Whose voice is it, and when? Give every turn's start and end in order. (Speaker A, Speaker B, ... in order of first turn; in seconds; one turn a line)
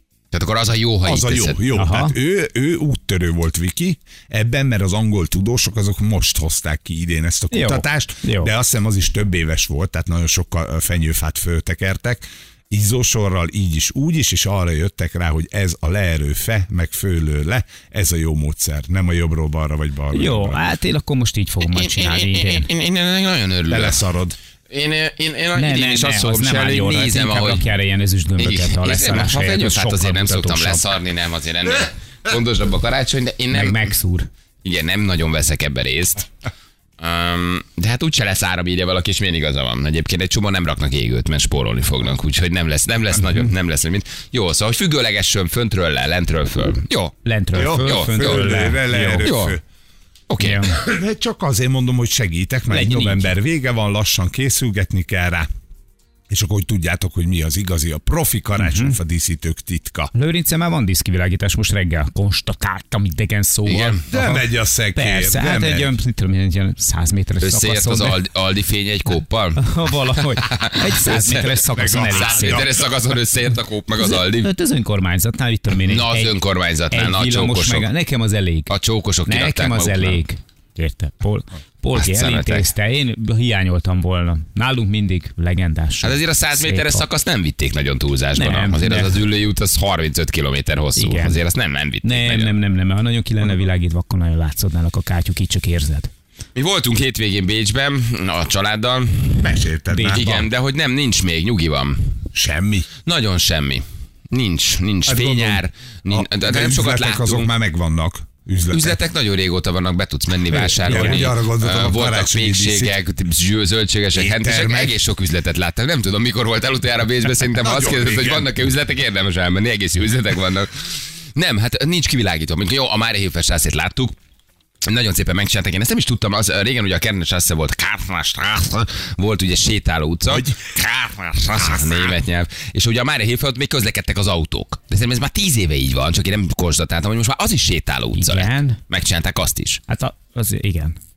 Speaker A: 0.3-1.6
Speaker B: 1.0-20.6
Speaker C: 1.8-2.1
Speaker C: 7.5-8.5
Speaker C: 20.1-22.7
Speaker A: 21.6-24.0
Speaker B: 23.7-24.4
Speaker A: 24.7-27.7
Speaker C: 25.6-30.9
Speaker A: 28.4-33.9
Speaker C: 33.5-34.3
Speaker A: 34.6-36.3
Speaker A: 37.0-47.1
Speaker C: 47.2-49.3
Speaker B: 47.5-49.6
Speaker A: 47.7-48.7
Speaker A: 49.2-49.6
Speaker A: 50.3-50.7
Speaker C: 50.4-50.7
Speaker B: 50.7-55.5
Speaker C: 52.7-53.4
Speaker B: 56.3-60.1
Speaker C: 58.6-59.0
Speaker C: 60.1-64.4
Speaker A: 63.7-64.1
Speaker B: 64.1-65.9
Speaker C: 65.0-68.2
Speaker A: 67.4-71.6
Speaker C: 69.6-72.6
Speaker B: 71.5-72.8
Speaker A: 72.1-74.5
Speaker C: 74.0-76.3
Speaker A: 75.8-77.9
Speaker C: 76.9-78.7
Speaker A: 78.7-80.2
Speaker C: 79.3-87.0
Speaker A: 82.0-82.7
Speaker A: 86.0-92.5
Speaker C: 88.4-89.2
Speaker C: 91.0-91.4
Speaker C: 92.0-96.1
Speaker A: 96.6-102.2
Speaker B: 99.4-100.2
Speaker C: 99.9-100.5
Speaker B: 102.3-102.9
Speaker A: 103.0-107.5
Speaker B: 105.1-109.0
Speaker A: 108.7-124.2
Speaker B: 110.5-113.0
Speaker B: 114.2-114.9
Speaker B: 117.6-118.5
Speaker A: 124.8-139.8
Speaker B: 130.3-130.7
Speaker B: 131.6-132.1
Speaker C: 138.2-138.8
Speaker C: 139.9-141.0